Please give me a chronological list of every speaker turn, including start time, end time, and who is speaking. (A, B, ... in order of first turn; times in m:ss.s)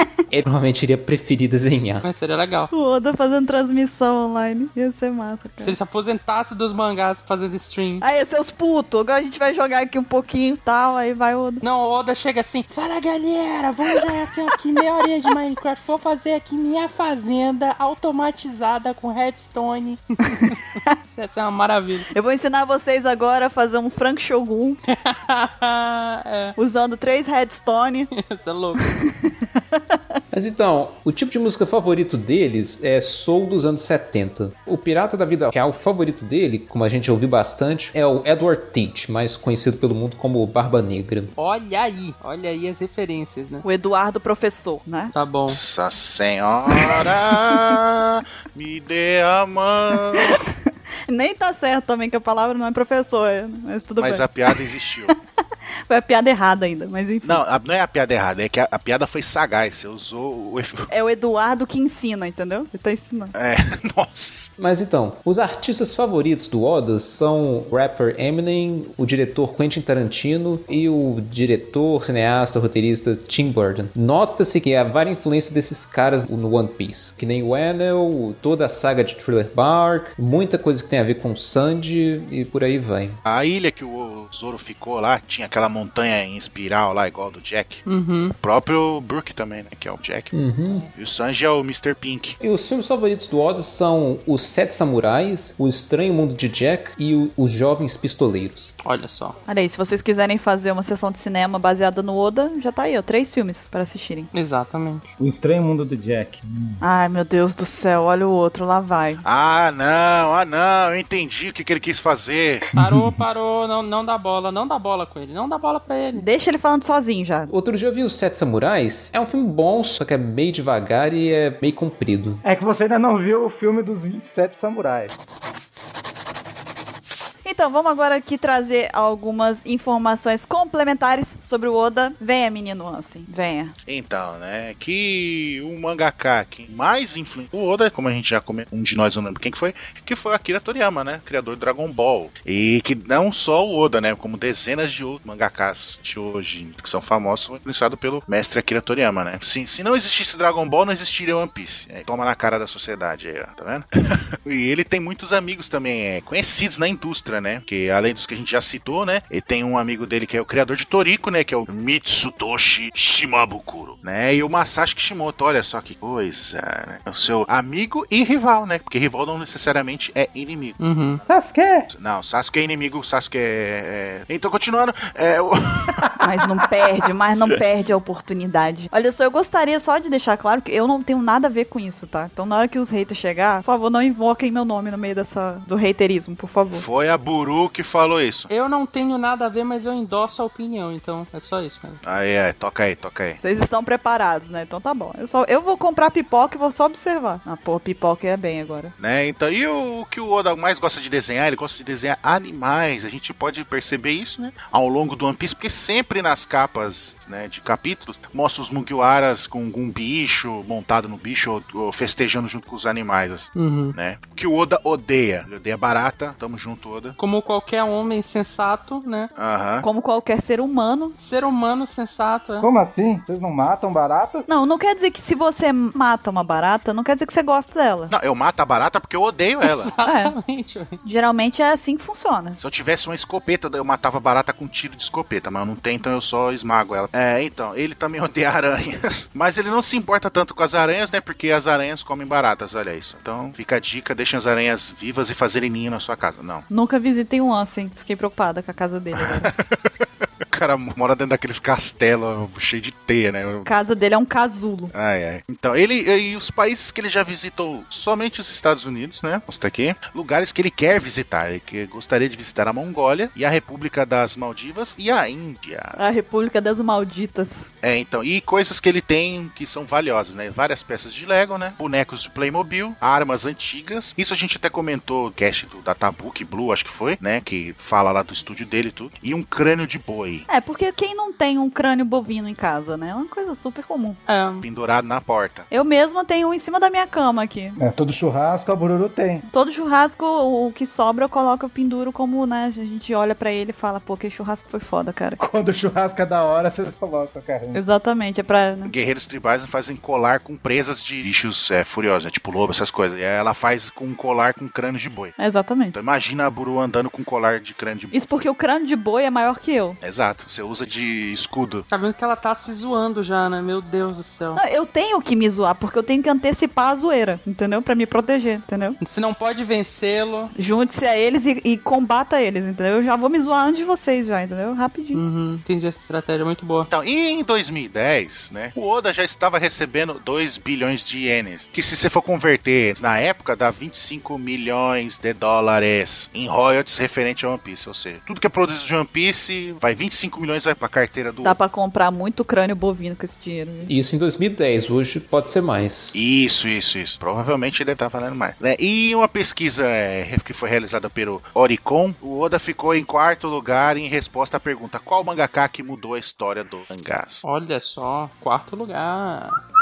0:00.3-0:02.0 A
0:02.0-0:02.7 B
0:02.7-0:05.8 C
0:05.6-0:08.0 B
0:08.0-0:11.6 C
0:11.6-0:22.1 B
0:22.1-0:24.8 C
0:24.9-0:26.5 B
0:26.6-0:28.1 C
0:28.1-0:29.0 B
0:28.8-0:30.0 C
0:30.3-0:41.3 A
0:41.4-0:43.6 B
0:43.6-0:45.1 C
0:45.1-0:45.6 B
0:45.5-0:50.4 D
0:50.2-0:50.5 C
0:51.1-0:54.6 C
0:54.0-0:55.1 D
0:55.9-0:57.4 C
0:57.2-1:00.9 D
1:00.9-1:03.3 C
1:03.3-1:04.5 D
1:04.6-1:23.2 A
1:23.2-1:30.3 D
1:27.8-1:28.3 B
1:30.3-1:30.9 A
1:30.9-1:32.4 D
1:32.4-1:38.7 A
1:38.8-1:39.4 B
1:39.5-1:44.3 C
1:44.3-1:45.0 B
1:45.2-1:46.8 E
1:46.8-1:49.2 C
1:49.2-1:52.6 D
1:52.7-1:53.1 E
1:52.8-1:56.2 B
1:56.1-1:57.5 C
1:57.5-2:02.4 A
2:02.4-2:05.1 E
2:07.4-2:13.7 C
2:13.8-2:50.8 D
2:50.8-2:51.2 B
2:51.2-2:51.9 E
2:51.9-2:56.0 D
2:56.2-3:06.8 C
3:06.7-3:08.5 D
3:08.5-3:12.0 B
3:12.0-3:13.4 D
3:13.4-3:18.9 C
3:19.0-3:37.2 D
3:33.6-3:33.9 B
3:37.2-3:39.3 B
3:39.4-3:39.8 D
3:39.8-3:41.2 C
3:41.2-3:42.7 B
3:42.6-3:44.5 E
3:44.5-3:48.1 C
3:48.1-3:49.9 D
3:49.6-3:51.0 B
3:50.0-3:50.3 C
3:51.0-3:52.6 C
3:52.6-4:06.6 D
4:06.7-4:09.5 C
4:09.2-4:13.7 D
4:13.6-4:14.9 C
4:14.9-4:26.0 D
4:26.0-4:27.7 C
4:27.8-4:40.5 D
4:40.5-4:44.2 C
4:44.3-4:44.6 B
4:44.6-4:45.7 D
4:45.7-4:47.8 C
4:47.8-4:49.4 E
4:49.5-4:55.4 C
4:55.4-4:57.8 E
4:57.7-4:58.9 C
4:58.8-5:05.3 D
5:05.4-5:05.9 C
5:05.9-5:08.2 D
5:08.1-5:10.0 C
5:10.0-5:11.8 D
5:11.9-5:14.6 B
5:14.5-5:19.0 C
5:19.0-5:20.5 B
5:20.6-5:25.2 C
5:25.1-5:26.9 B
5:26.9-5:41.6 D
5:41.4-5:43.9 C
5:43.9-5:46.2 A
5:46.1-5:57.4 D
5:57.4-5:59.6 B